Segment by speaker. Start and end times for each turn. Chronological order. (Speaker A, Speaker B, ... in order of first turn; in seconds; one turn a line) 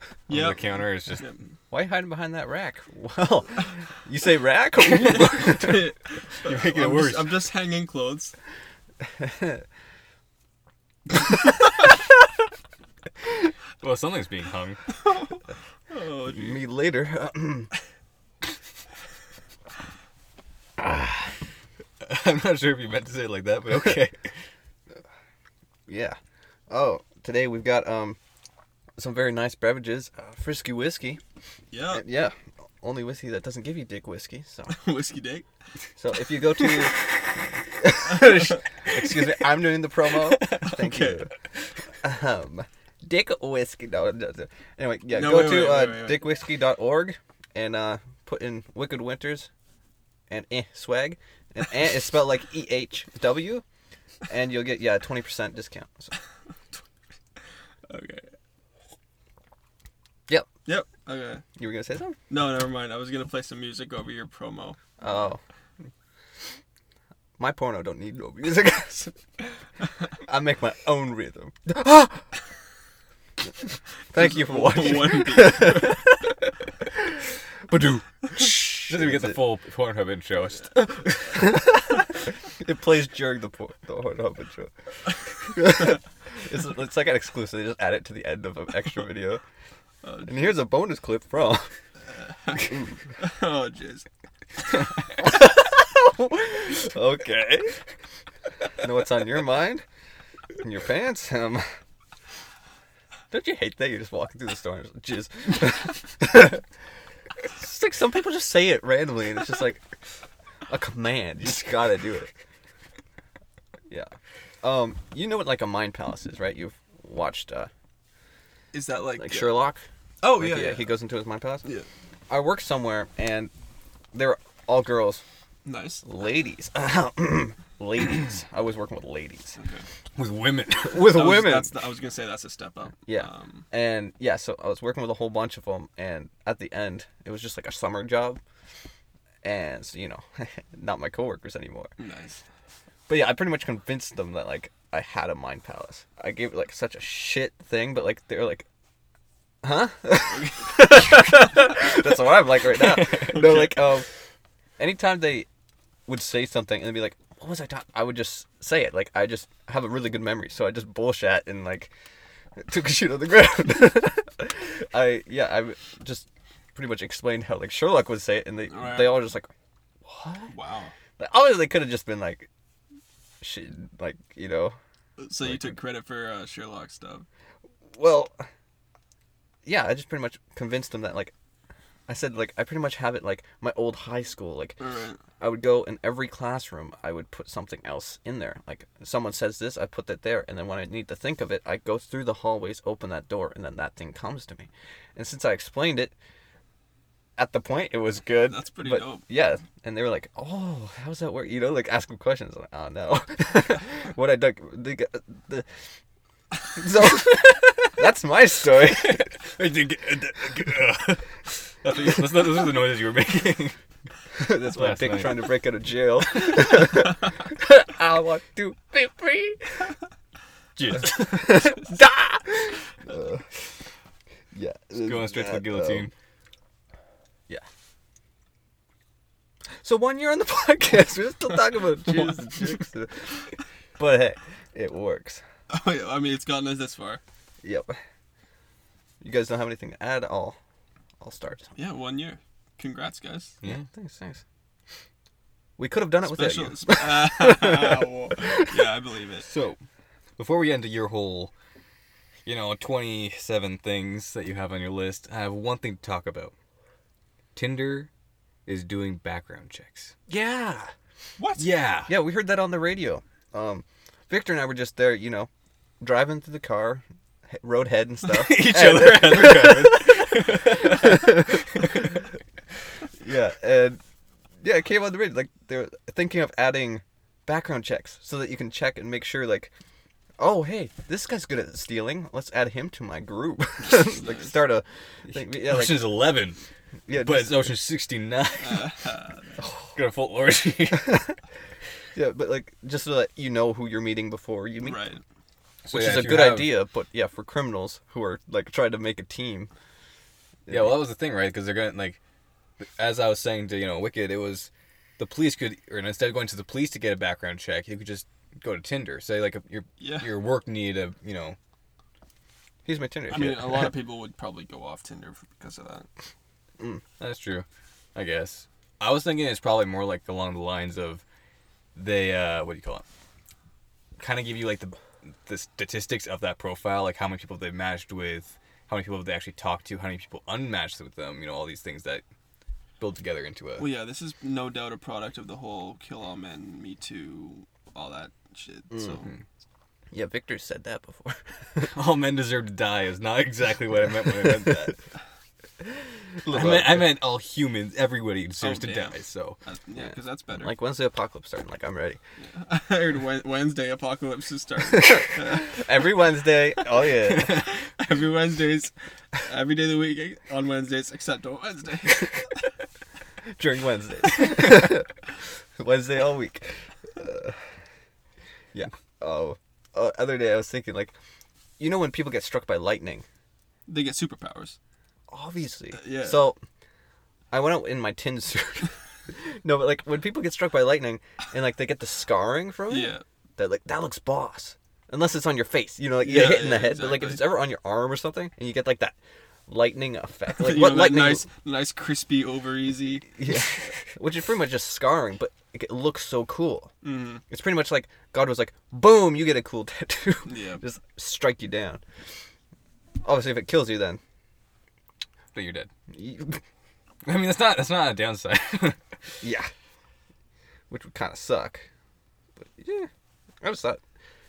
Speaker A: 0.3-1.3
Speaker B: 0.3-1.4
Speaker C: 1.7-5.9
Speaker B: 4.8-8.3
Speaker A: 6.4-7.3
Speaker C: 9.0-9.6
Speaker A: 13.8-14.8
Speaker B: 14.9-16.6
Speaker C: 16.2-17.7
Speaker C: 20.8-21.1
Speaker A: 22.0-24.3
Speaker C: 25.9-26.2
Speaker C: 26.7-28.2
Speaker C: 29.0-31.2
Speaker B: 31.7-32.0
Speaker C: 31.9-34.8
Speaker B: 34.7-35.5
Speaker C: 36.0-37.1
Speaker C: 37.6-41.3
Speaker B: 38.1-38.6
Speaker B: 40.4-41.3
Speaker C: 42.0-49.5
Speaker B: 45.1-46.2
Speaker C: 50.3-53.6
Speaker C: 54.3-56.1
Speaker B: 57.9-58.3
Speaker B: 60.6-61.4
Speaker C: 61.6-62.2
Speaker B: 62.3-64.8
Speaker C: 65.0-65.4
Speaker C: 67.4-69.2
Speaker C: 70.2-72.3
Speaker C: 74.1-76.2
Speaker B: 74.1-76.0
Speaker C: 77.7-79.4
Speaker A: 78.4-81.4
Speaker C: 81.3-84.7
Speaker C: 85.4-89.4
Speaker B: 90.0-90.6
Speaker C: 90.2-91.7
Speaker B: 92.1-94.1
Speaker C: 92.5-92.9
Speaker C: 95.2-97.8
Speaker C: 98.8-99.8
Speaker C: 100.6-101.7
Speaker C: 103.3-106.6
Speaker C: 107.5-109.8
Speaker C: 110.7-112.3
Speaker C: 113.9-117.7
Speaker B: 118.7-119.7
Speaker C: 119.2-121.7
Speaker B: 120.2-121.0
Speaker C: 122.3-123.5
Speaker C: 124.1-125.2
Speaker B: 125.6-126.0
Speaker C: 126.0-129.6
Speaker B: 129.6-129.8
Speaker A: 130.2-131.2
Speaker C: 130.8-131.7
Speaker B: 131.0-133.6
Speaker C: 133.1-138.4
Speaker C: 139.4-141.9
Speaker B: 142.0-142.4
Speaker C: 143.1-148.7
Speaker C: 149.6-154.1
Speaker B: 150.4-151.3
Speaker B: 153.1-153.9
Speaker C: 154.8-155.5
Speaker C: 156.1-161.9
Speaker C: 162.6-169.5
Speaker B: 168.7-169.2
Speaker C: 170.0-170.5
Speaker B: 170.5-170.9
Speaker C: 171.2-172.5
Speaker C: 173.4-174.8
Speaker B: 175.2-177.2
Speaker C: 175.4-175.8
Speaker C: 178.0-178.5
Speaker C: 179.6-181.3
Speaker C: 182.1-184.8
Speaker B: 184.8-185.2
Speaker C: 185.4-196.1
Speaker C: 197.4-205.7
Speaker B: 198.4-199.2
Speaker C: 206.7-209.3
Speaker A: 209.0-213.8
Speaker C: 214.4-219.9
Speaker A: 214.6-215.5
Speaker A: 220.8-221.7
Speaker C: 220.9-223.6
Speaker C: 224.5-226.1
Speaker A: 225.0-226.1
Speaker C: 229.8-235.4
Speaker B: 232.1-232.7
Speaker B: 235.7-237.2
Speaker C: 237.6-238.0
Speaker C: 239.2-240.6
Speaker C: 241.2-241.8
Speaker B: 241.8-243.5
Speaker A: 243.6-243.9
Speaker C: 243.6-244.4
Speaker C: 245.8-248.9
Speaker B: 246.2-249.5
Speaker A: 249.4-249.8
Speaker A: 250.4-251.5
Speaker A: 252.4-256.5
Speaker A: 257.5-258.1
Speaker A: 258.6-260.1
Speaker C: 260.3-260.9
Speaker B: 261.4-261.7
Speaker A: 261.6-262.1
Speaker C: 262.1-265.5
Speaker C: 266.0-272.2
Speaker A: 268.3-272.0
Speaker C: 273.2-274.0
Speaker C: 274.6-279.7
Speaker C: 280.4-286.1
Speaker B: 283.8-284.6
Speaker A: 285.3-286.6
Speaker C: 287.1-287.7
Speaker A: 287.1-288.9
Speaker B: 288.6-289.6
Speaker A: 289.9-291.2
Speaker C: 291.1-291.3
Speaker C: 292.1-295.0
Speaker B: 294.8-295.2
Speaker A: 295.8-296.8
Speaker C: 295.9-299.7
Speaker C: 300.6-301.0
Speaker A: 300.7-302.2
Speaker A: 302.8-311.6
Speaker B: 310.0-310.3
Speaker C: 312.8-313.9
Speaker B: 313.3-316.1
Speaker A: 317.2-321.2
Speaker A: 321.9-323.0
Speaker A: 324.2-332.2
Speaker A: 333.0-333.9
Speaker B: 333.8-339.3
Speaker C: 338.9-339.2
Speaker C: 340.1-341.9
Speaker A: 341.8-344.9
Speaker C: 346.4-347.2
Speaker A: 346.5-349.6
Speaker B: 348.6-350.7
Speaker C: 349.9-352.2
Speaker B: 352.4-356.0
Speaker C: 354.9-357.7
Speaker B: 357.2-362.6
Speaker C: 363.6-365.2
Speaker C: 365.8-367.6
Speaker C: 368.7-371.1
Speaker C: 371.8-373.2
Speaker B: 373.9-374.8
Speaker C: 375.3-376.6
Speaker B: 375.9-376.5
Speaker C: 377.5-391.4
Speaker B: 382.9-383.2
Speaker B: 386.2-387.5
Speaker B: 390.5-393.3
Speaker C: 393.3-396.9
Speaker B: 397.0-397.4
Speaker C: 397.5-402.0
Speaker B: 400.5-400.8
Speaker C: 403.2-404.2
Speaker A: 405.5-405.9
Speaker C: 406.1-406.6
Speaker A: 407.2-409.0
Speaker C: 409.4-409.7
Speaker C: 410.9-411.9
Speaker C: 412.6-413.1
Speaker C: 413.6-414.0